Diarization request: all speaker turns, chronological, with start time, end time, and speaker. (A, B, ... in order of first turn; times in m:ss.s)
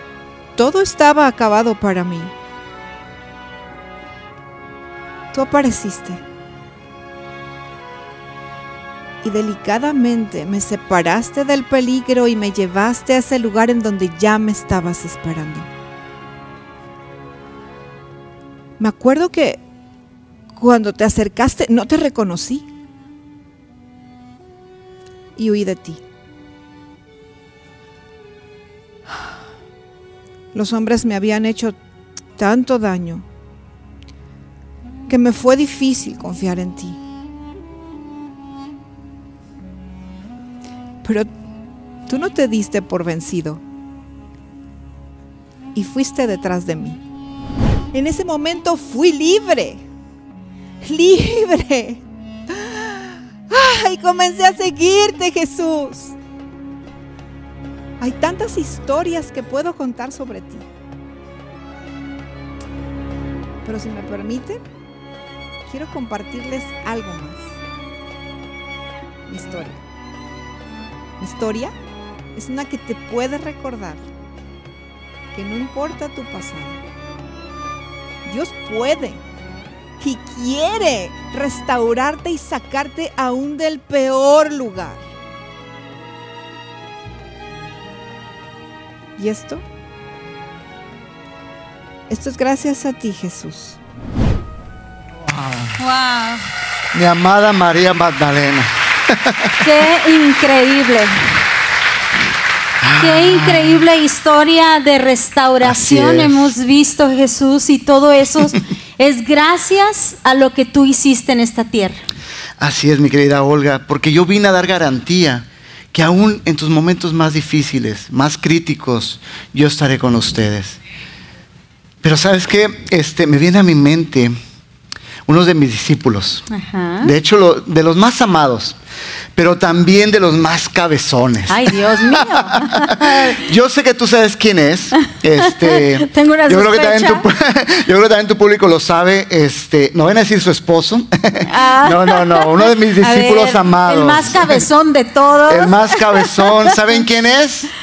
0:00.6-0:02.3 A
0:05.3-0:06.2 A
0:09.2-0:15.7 A
0:18.8-0:19.6 A
0:20.5-0:22.7 A
0:25.4-0:26.0 A
0:30.5-0:31.8 A
0:32.4-0:33.2 A
0:35.1-0:37.0 A
0:41.0-0:41.3 A
0:42.1-0:43.6 A
0:45.7-0:47.0 A
0:47.9-0:49.8 A
0:50.8-0:56.2 A
0:58.0-1:00.7 A
1:03.6-1:04.6 A
1:05.7-1:07.6 A
1:09.3-1:09.8 A
1:11.2-1:11.7 A
1:12.3-1:14.0 A
1:15.3-1:16.8 A
1:18.2-1:19.2 A
1:20.0-1:25.1 A
1:29.2-1:29.6 A
1:32.1-1:33.8 A
1:35.3-1:35.7 B
1:35.8-1:36.4 C
1:36.9-1:39.3 B
1:39.6-1:41.1 C
1:42.8-1:43.8 B
1:43.0-1:52.0 C
1:45.6-1:46.5 B
1:52.6-2:00.8 B
2:02.0-2:04.3 B
2:05.2-2:06.4 B
2:06.5-2:07.1 C
2:07.0-2:08.8 B
2:09.4-2:12.7 B
2:11.5-2:13.5 C
2:13.3-2:24.6 B
2:14.9-2:17.3 C
2:21.4-2:26.8 C
2:25.5-2:27.7 B